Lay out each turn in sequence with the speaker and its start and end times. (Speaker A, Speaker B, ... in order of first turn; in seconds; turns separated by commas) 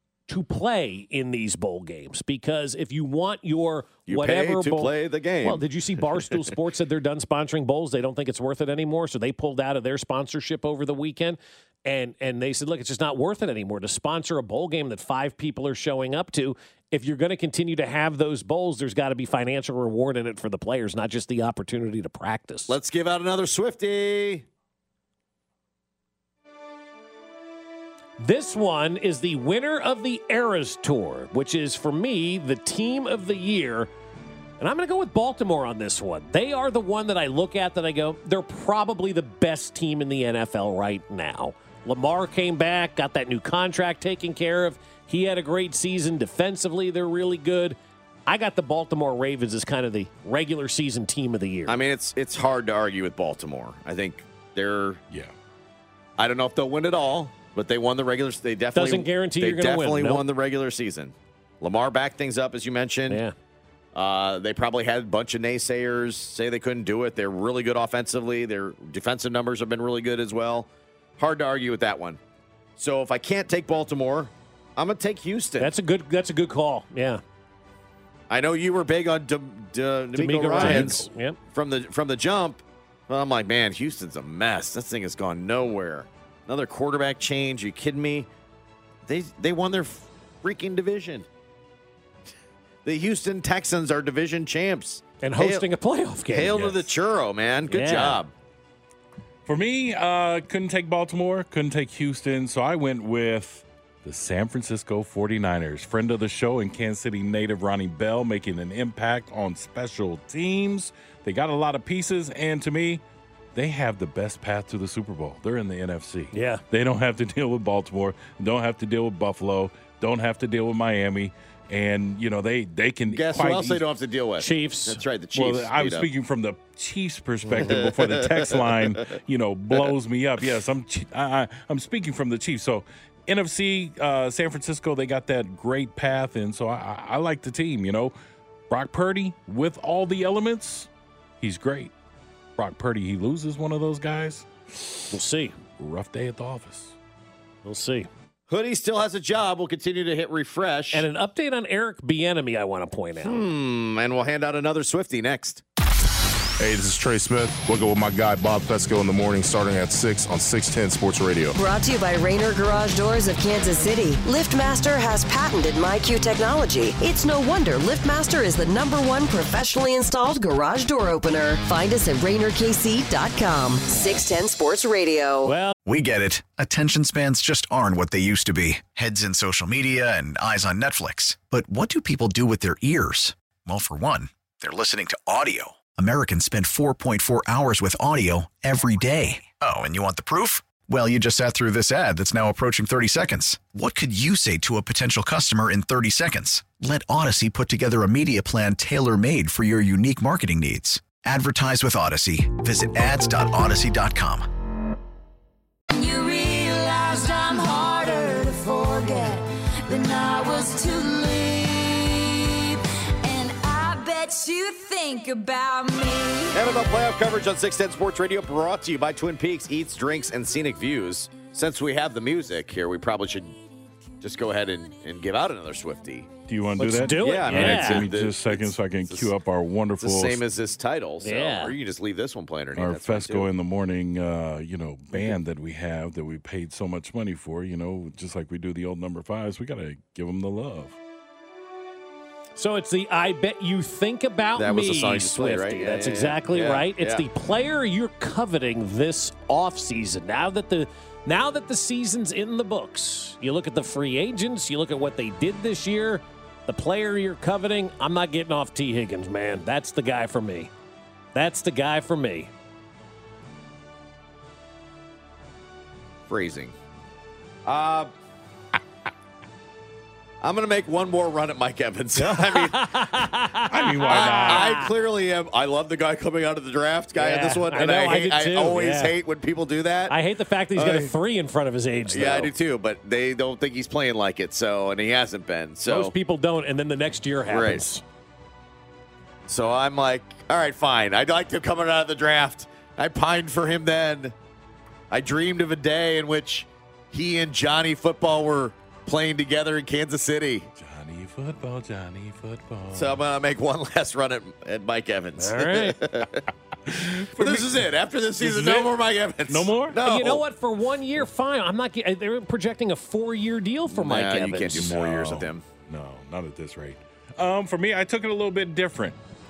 Speaker A: 0.3-4.9, Speaker B: 4.1-5.6, Speaker A: 5.4-22.8, Speaker B: 22.7-24.4, Speaker A: 28.2-33.9, Speaker A: 34.6-51.8, Speaker B: 51.7-55.0, Speaker B: 56.2-63.2, Speaker A: 58.7-60.2, Speaker A: 63.1-63.3, Speaker B: 63.9-72.2, Speaker B: 72.8-75.7, Speaker A: 75.6-77.2, Speaker B: 78.3-88.3, Speaker A: 80.1-81.4, Speaker B: 89.0-91.3, Speaker B: 92.8-95.6, Speaker A: 95.2-96.9, Speaker B: 96.3-98.3, Speaker A: 97.7-98.2, Speaker C: 99.5-113.0, Speaker C: 113.5-123.8, Speaker A: 116.3-116.6, Speaker B: 123.1-126.1, Speaker A: 124.4-125.0, Speaker C: 125.3-138.1, Speaker B: 127.6-128.6, Speaker C: 138.7-140.9, Speaker C: 141.4-141.9, Speaker C: 142.6-145.1, Speaker A: 145.1-145.6, Speaker C: 145.8-146.9, Speaker A: 147.6-148.1, Speaker B: 148.5-151.1, Speaker A: 150.9-153.4, Speaker B: 153.2-155.6, Speaker D: 156.6-161.6, Speaker E: 161.5-175.5, Speaker A: 175.4-175.8, Speaker F: 175.8-204.5, Speaker G: 205.9-216.6, Speaker B: 216.5-223.6, Speaker B: 224.2-226.3, Speaker C: 226.5-230.4, Speaker A: 226.8-228.1, Speaker B: 227.1-229.3, Speaker B: 230.0-233.5, Speaker A: 231.2-231.7, Speaker C: 232.7-240.9, Speaker A: 242.6-260.7, Speaker B: 244.6-247.2, Speaker A: 261.3-262.5, Speaker B: 266.3-266.7, Speaker B: 267.6-268.1, Speaker B: 270.4-273.1, Speaker A: 272.2-274.9, Speaker C: 273.7-274.9, Speaker B: 274.1-280.2, Speaker A: 277.1-279.1, Speaker A: 280.1-282.5, Speaker B: 280.7-281.1, Speaker B: 282.1-286.1, Speaker A: 285.9-288.0, Speaker B: 287.5-287.8, Speaker B: 289.5-294.3, Speaker B: 295.1-300.7, Speaker C: 300.8-303.2, Speaker B: 302.9-310.4, Speaker A: 305.4-306.0, Speaker C: 307.2-307.8, Speaker C: 308.4-308.9, Speaker C: 309.5-310.0, Speaker A: 310.0-314.9, Speaker B: 313.9-315.6, Speaker C: 314.7-319.2